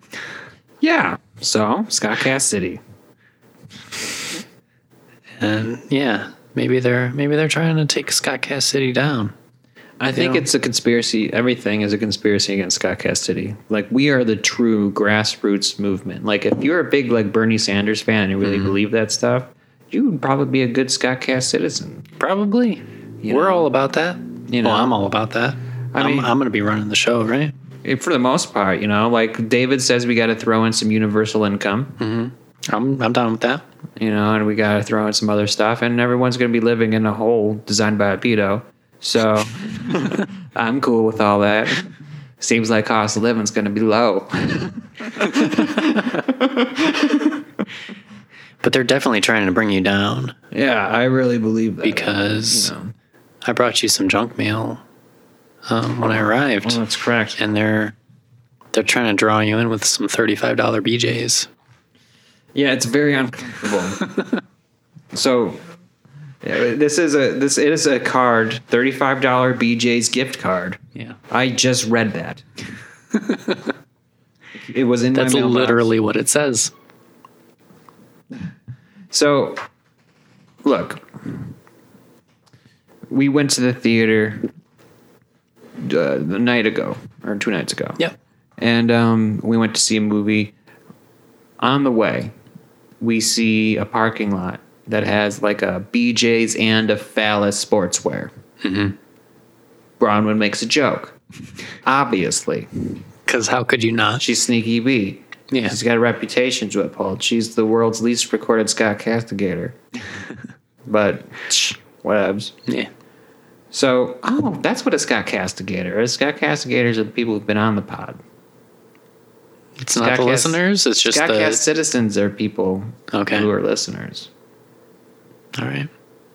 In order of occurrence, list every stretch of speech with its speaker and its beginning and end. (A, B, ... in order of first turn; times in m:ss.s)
0:00.8-0:02.8 A
0:05.4-0:09.3 B
0:10.0-0:22.1 A
0:10.1-0:10.5 B
0:18.4-0:18.7 B
0:22.2-0:27.5 B
0:23.2-0:23.7 A
0:24.5-0:25.0 A
0:25.9-0:26.3 A
0:27.8-0:32.0 A
0:32.0-0:33.6 B
0:34.0-0:41.9 A
0:42.4-0:47.4 A
0:48.6-0:50.4 B
0:50.5-0:52.9 A
0:51.8-0:52.7 B
0:53.4-0:54.8 B
0:55.7-0:56.8 B
0:56.6-0:57.4 A
0:57.4-0:58.0 B
0:58.7-1:01.5 B
1:02.6-1:04.1 A
1:05.1-1:05.6 A
1:06.4-1:12.4 A
1:13.3-1:13.6 B
1:14.7-1:15.9 A
1:15.1-1:16.7 B
1:19.1-1:19.6 A
1:20.6-1:21.1 A
1:23.1-1:24.5 A
1:25.8-1:28.0 A
1:28.6-1:30.5 A
1:31.6-1:32.3 A
1:33.0-1:38.3 A
1:38.6-1:39.0 B
1:40.0-1:41.2 A
1:41.8-1:43.0 A
1:43.3-1:44.2 B
1:44.2-1:49.8 A
1:45.5-1:45.8 B
1:50.9-1:52.5 A
1:53.7-1:58.2 A
1:59.8-2:01.6 B
1:59.9-2:04.3 A
2:03.1-2:03.5 B
2:05.6-2:05.9 B